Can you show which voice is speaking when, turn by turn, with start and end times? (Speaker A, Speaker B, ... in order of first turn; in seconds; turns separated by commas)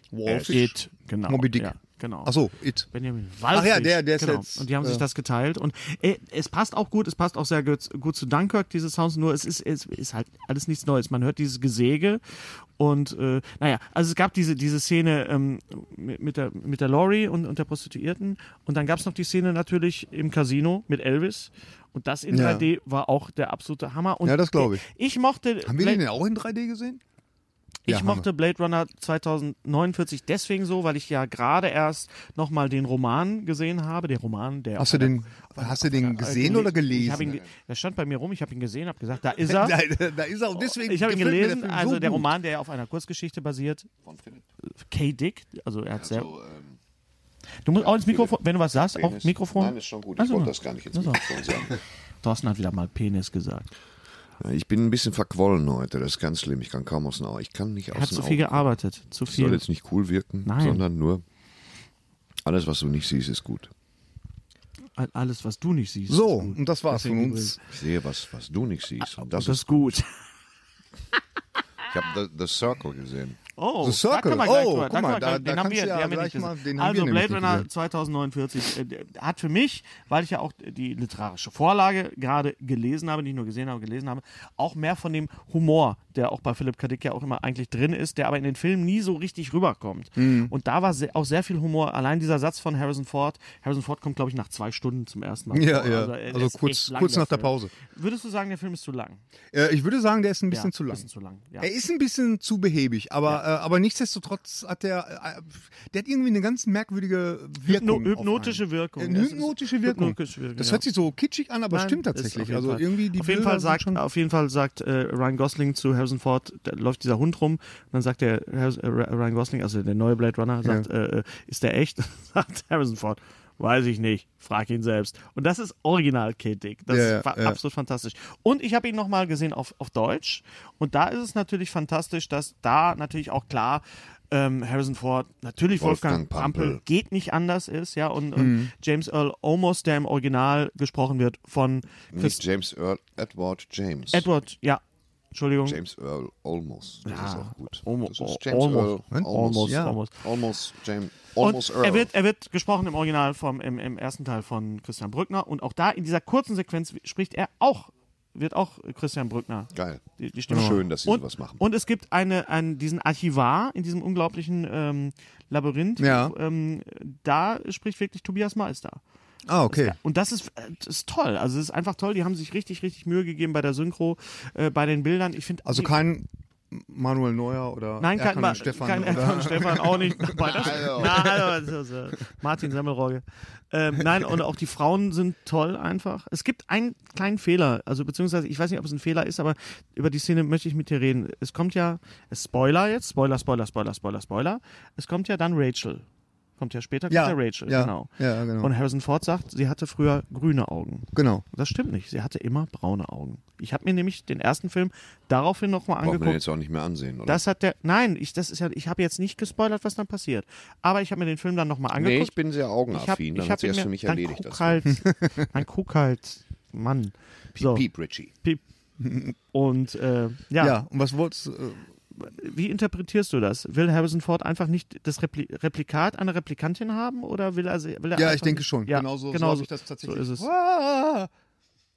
Speaker A: 0.1-0.7, Speaker B: 0.2-2.3, Speaker C: 0.3-0.6, Speaker A: 1.3-1.7, Speaker A: 2.2-2.9, Speaker B: 2.9-26.0, Speaker A: 3.5-5.0, Speaker A: 22.3-22.7, Speaker A: 24.2-24.8, Speaker A: 25.6-27.0, Speaker A: 27.9-28.2, Speaker B: 27.9-39.8, Speaker A: 34.8-37.3, Speaker C: 36.9-37.5, Speaker A: 39.4-42.3, Speaker B: 40.5-43.9, Speaker C: 44.0-44.4, Speaker B: 44.6-46.3, Speaker C: 46.0-46.8, Speaker B: 47.6-51.2, Speaker C: 47.8-51.8, Speaker B: 52.2-53.7, Speaker C: 54.4-58.7, Speaker B: 57.9-59.6, Speaker C: 59.3-61.2, Speaker B: 60.4-60.8, Speaker C: 62.4-63.7, Speaker B: 65.0-67.6, Speaker A: 66.1-67.6, Speaker C: 67.7-69.9, Speaker B: 69.1-70.1, Speaker C: 71.9-73.4, Speaker B: 73.6-99.2, Speaker A: 73.8-77.7, Speaker A: 90.2-90.5, Speaker A: 95.5-97.7, Speaker A: 99.5-101.0, Speaker B: 100.5-101.7, Speaker A: 101.6-114.0, Speaker B: 107.6-110.8, Speaker B: 111.7-142.4, Speaker A: 126.9-127.6, Speaker C: 135.8-136.8, Speaker A: 138.3-138.7, Speaker C: 142.1-144.3, Speaker B: 144.1-144.8, Speaker B: 145.3-145.8, Speaker C: 145.7-152.1, Speaker B: 147.0-150.2, Speaker A: 149.1-149.9, Speaker B: 151.4-169.0, Speaker C: 159.7-161.6, Speaker A: 160.5-160.8, Speaker A: 166.0-166.3, Speaker A: 169.5-169.9, Speaker B: 169.7-176.0, Speaker A: 175.7-181.3, Speaker B: 178.0-196.0, Speaker C: 180.4-181.4, Speaker B: 196.6-206.4, Speaker A: 197.1-198.7, Speaker A: 201.1-201.4, Speaker C: 206.0-207.4, Speaker B: 207.3-212.3, Speaker C: 211.9-214.9, Speaker B: 212.9-217.8, Speaker C: 217.5-218.3, Speaker A: 219.0-219.3, Speaker B: 219.5-220.8, Speaker A: 220.6-221.8, Speaker B: 222.1-230.5, Speaker A: 228.2-231.3